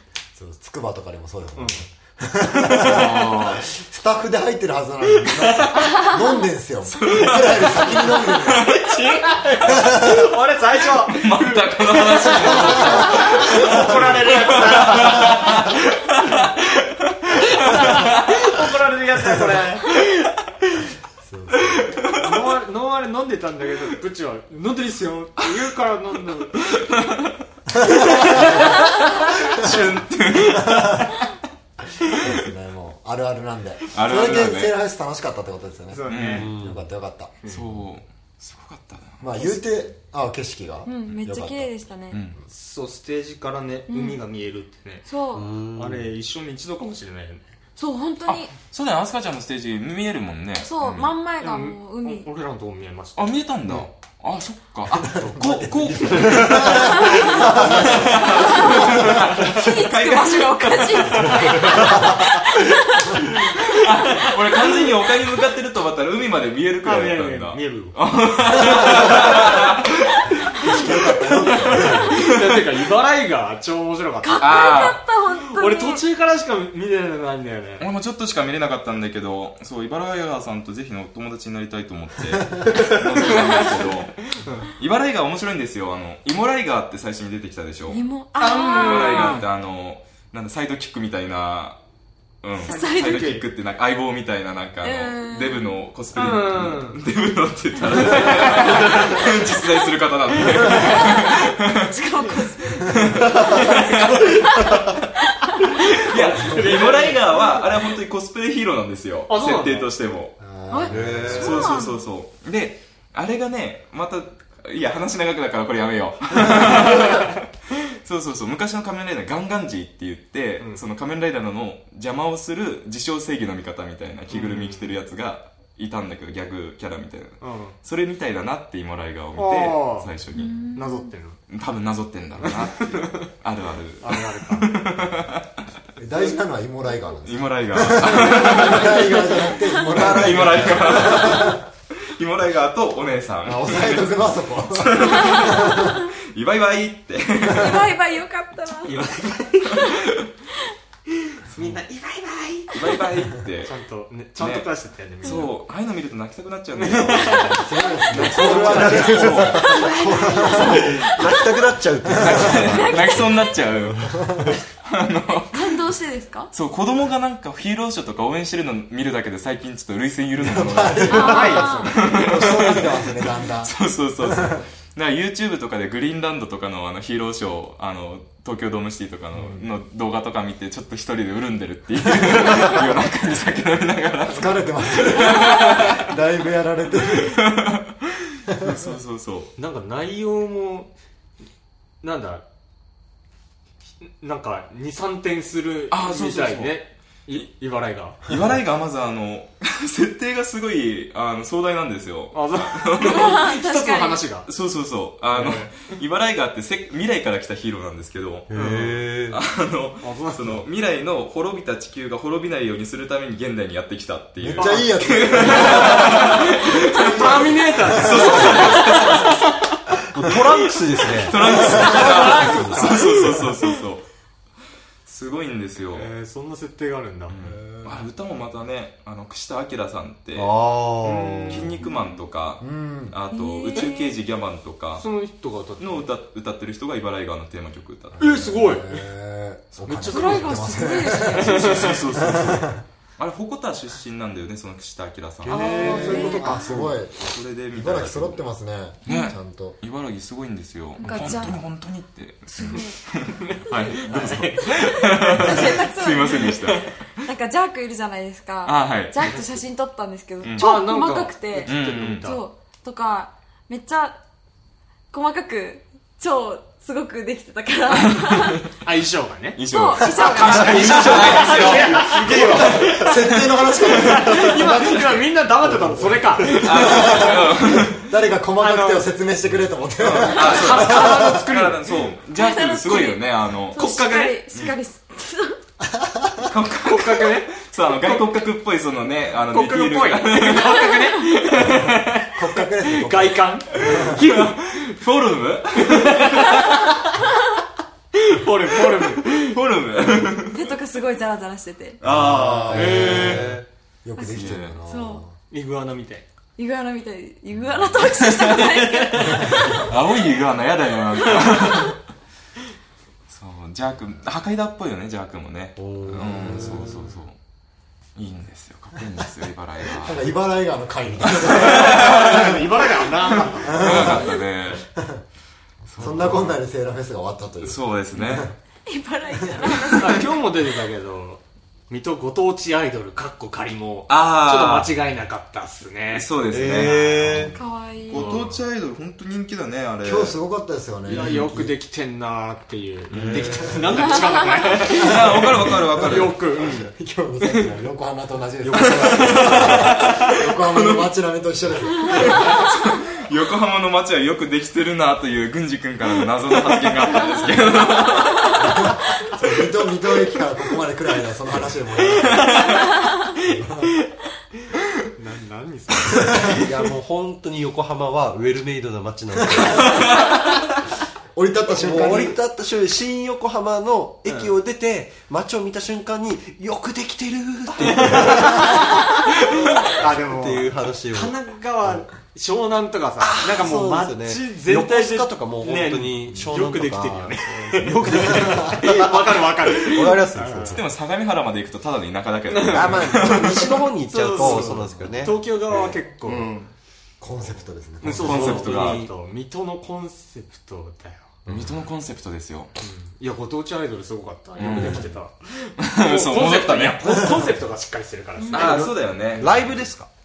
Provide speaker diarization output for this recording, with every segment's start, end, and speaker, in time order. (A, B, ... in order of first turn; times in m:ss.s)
0:00.3-0:08.8 A
0:01.6-0:01.8 B
0:02.7-0:03.6 C
0:05.4-0:05.9 B
0:06.9-0:09.1 C
0:08.6-0:15.7 B
0:09.6-0:10.3 A
0:11.1-0:18.4 C
0:12.8-0:13.0 A
0:17.4-0:19.9 B
0:21.2-0:22.0 A
0:21.6-0:22.3 C
0:22.1-0:26.6 B
0:26.7-0:27.3 C
0:27.8-0:28.8 A
0:28.1-0:28.4 B
0:28.1-0:31.1 C
0:30.6-0:31.1 A
0:32.1-0:37.3 A
0:33.9-0:34.7 C
0:35.9-0:36.5 B
0:36.1-0:36.5 C
0:36.3-0:36.8 D
0:37.4-0:37.7 B
0:37.5-0:39.2 C
0:39.2-0:41.7 A
0:39.4-0:39.6 E
0:40.8-0:42.2 E
0:42.1-0:42.4 C
0:42.5-0:45.1 B
0:43.9-0:44.2 E
0:45.0-0:45.5 E
0:45.3-0:46.0 D
0:45.7-0:47.5 B
0:47.8-0:48.5 E
0:48.3-0:51.1 C
0:50.6-0:52.3 E
0:51.4-0:53.4 B
0:53.2-1:02.2 C
0:54.9-0:59.2 A
0:56.9-0:57.5 E
0:58.2-1:04.8 E
1:03.4-1:10.2 C
1:06.8-1:07.9 B
1:08.6-1:09.2 B
1:10.6-1:14.9 B
1:10.6-1:12.2 A
1:14.2-1:16.0 E
1:14.4-1:15.0 C
1:15.5-1:17.9 B
1:17.8-1:28.0 C
1:24.4-1:24.7 B
1:27.9-1:29.4 E
1:28.4-1:29.4 B
1:28.8-1:31.8 C
1:32.4-1:41.9 C
1:32.6-1:33.4 B
1:32.7-1:33.2 E
1:34.8-1:35.8 E
1:36.1-1:37.0 B
1:38.1-1:39.3 B
1:40.7-1:44.8 E
1:42.8-1:44.9 C
1:43.2-1:44.9 B
1:45.8-1:50.4 C
1:45.8-1:47.6 B
1:49.3-1:49.9 B
1:50.4-1:51.8 A
1:50.7-1:52.0 E
1:50.9-1:51.7 D
1:51.1-2:10.6 C
2:04.3-2:04.9 B
2:07.4-2:07.8 B
2:09.4-2:10.1 B
2:10.3-2:11.1 E
2:10.7-2:11.4 B
2:11.5-2:15.5 C
2:12.4-2:13.2 B
2:14.0-2:14.7 B
2:16.0-2:21.6 A
2:17.2-2:19.2 C
2:19.2-2:20.0 E
2:19.8-2:27.9 C
2:23.4-2:25.9 A
2:25.1-2:26.1 E
2:27.4-2:29.0 E
2:28.8-2:29.9 B
2:31.4-2:32.8 B
2:32.7-2:33.7 C
2:33.6-2:35.5 B
2:34.4-2:34.7 C
2:35.2-2:39.8 C
2:36.8-2:39.4 B
2:37.6-2:40.8 A
2:38.1-2:41.6 E
2:38.9-2:39.5 D
2:40.4-2:40.8 C
2:40.4-2:43.2 D
2:42.0-2:42.7 A
2:42.2-2:45.8 C
2:42.5-2:43.6 E
2:44.0-2:44.6 A
2:45.5-2:46.5 E
2:46.5-3:06.1 C
2:50.4-2:54.6 A
2:51.1-2:52.6 B
2:51.1-2:51.9 E
3:04.3-3:07.4 A
3:07.1-3:09.5 C
3:08.5-3:08.8 A
3:09.6-3:10.9 B
3:12.0-3:12.4 B
3:14.0-3:18.2 B
3:15.9-3:16.8 C
3:18.2-3:23.4 C
3:22.3-3:24.5 B
3:23.0-3:24.2 E
3:24.4-3:28.5 C
3:25.3-3:25.9 B
3:28.5-3:29.4 D
3:28.5-3:29.0 B
3:29.3-3:39.5 C
3:30.0-3:30.7 B
3:34.4-3:38.7 A
3:34.6-3:39.6 B
3:40.1-3:41.4 D
3:41.2-3:44.0 C
3:41.2-3:43.4 B
3:41.5-3:42.9 A
3:45.0-3:46.1 C
3:45.9-3:47.4 B
3:47.3-3:50.5 C
3:47.4-3:48.1 A
3:50.3-3:51.8 D
3:51.0-3:51.8 B
3:51.5-3:55.1 C
3:52.6-3:53.2 A
3:53.3-3:54.2 E
3:55.0-3:56.1 B
3:55.8-3:58.4 C
3:58.1-4:02.8 A
3:58.2-3:59.0 B
3:59.8-4:02.0 B
3:59.9-4:02.0 E
4:01.2-4:06.3 C
4:05.5-4:06.8 B
4:05.5-4:06.7 E
4:05.5-4:09.8 A
4:06.8-4:08.4 C
4:09.0-4:16.9 C
4:09.1-4:09.4 E
4:11.0-4:11.6 E
4:11.0-4:11.3 B
4:12.5-4:13.0 E
4:13.4-4:14.8 B
4:13.7-4:24.2 E
4:18.6-4:19.3 C
4:20.4-4:20.7 C
4:20.6-4:22.4 B
4:21.6-4:22.3 C
4:25.1-4:28.7 E
4:27.9-4:28.6 C
4:28.8-4:29.6 B
4:29.6-4:33.5 C
4:29.6-4:31.8 E
4:30.4-4:33.3 B
4:30.7-4:31.9 D
4:32.0-4:41.4 A
4:33.9-4:37.3 B
4:36.5-4:38.0 C
4:38.6-4:39.2 B
4:40.0-4:43.8 C
4:40.3-4:42.0 B
4:42.3-4:45.6 E
4:43.7-4:44.4 B
4:46.0-4:46.4 A
4:46.4-4:51.0 C
4:46.8-4:48.2 B
4:49.5-4:54.8 B
4:52.3-4:54.2 A
4:53.9-4:56.5 C
4:55.8-4:56.9 B
4:58.2-4:59.5 B
4:59.2-5:00.6 C
5:00.5-5:02.0 E
5:02.0-5:03.4 C
5:02.0-5:03.6 D
5:02.1-5:03.5 A
5:02.6-5:03.6 B
5:04.0-5:05.3 A
5:04.2-5:05.2 E
5:04.3-5:04.8 C
5:05.5-5:06.2 B
5:06.6-5:10.0 E
5:08.0-5:08.9 C
5:08.8-5:09.6 B
5:09.2-5:09.9 A
5:09.6-5:12.0 C
5:11.3-5:11.8 E
5:13.3-5:17.4 C
5:15.8-5:17.1 D
5:16.2-5:17.1 A
5:18.2-5:20.2 C
5:20.0-5:22.5 A
5:21.4-5:22.5 C
5:21.6-5:24.0 B
5:23.6-5:24.9 C
5:23.6-5:24.4 A
5:24.9-5:25.2 A
5:25.9-5:26.6 C
5:26.0-5:28.5 A
5:27.6-5:28.5 C
5:28.8-5:30.3 E
5:29.9-5:37.4 B
5:34.1-5:34.9 C
5:36.1-5:40.4 C
5:36.5-5:37.6 D
5:37.5-5:38.4 E
5:38.1-5:38.6 B
5:40.0-5:41.7 A
5:41.0-5:46.9 B
5:43.1-5:44.1 D
5:43.1-5:43.4 C
5:43.3-5:44.0 A
5:44.0-5:44.5 E
5:44.8-5:46.4 C
5:44.9-5:52.5 A
5:48.6-5:50.0 B
5:48.9-5:51.1 C
5:52.1-5:58.6 C
5:58.6-6:02.7 A
6:02.3-6:02.6 C
6:03.3-6:03.9 A
6:05.1-6:06.7 B
6:06.4-6:10.2 D
6:09.6-6:10.0 A
6:11.3-6:12.4 A
6:11.7-6:21.4 D
6:14.2-6:14.5 B
6:17.8-6:19.0 B
6:19.9-6:30.8 B
6:23.2-6:30.8 D
6:28.3-6:28.8 A
6:30.7-6:33.9 C
6:32.5-6:36.7 B
6:32.6-6:36.5 D
6:34.8-6:35.1 A
6:37.2-6:38.6 A
6:38.0-6:41.3 B
6:38.1-6:39.1 D
6:38.2-6:39.1 C
6:41.4-6:41.8 D
6:41.5-6:42.7 C
6:42.8-6:49.0 B
6:44.6-6:45.1 C
6:44.7-6:45.0 D
6:45.8-6:47.2 C
6:47.0-6:47.4 A
6:48.4-6:48.8 E
6:48.5-6:49.8 C
6:49.3-6:50.1 D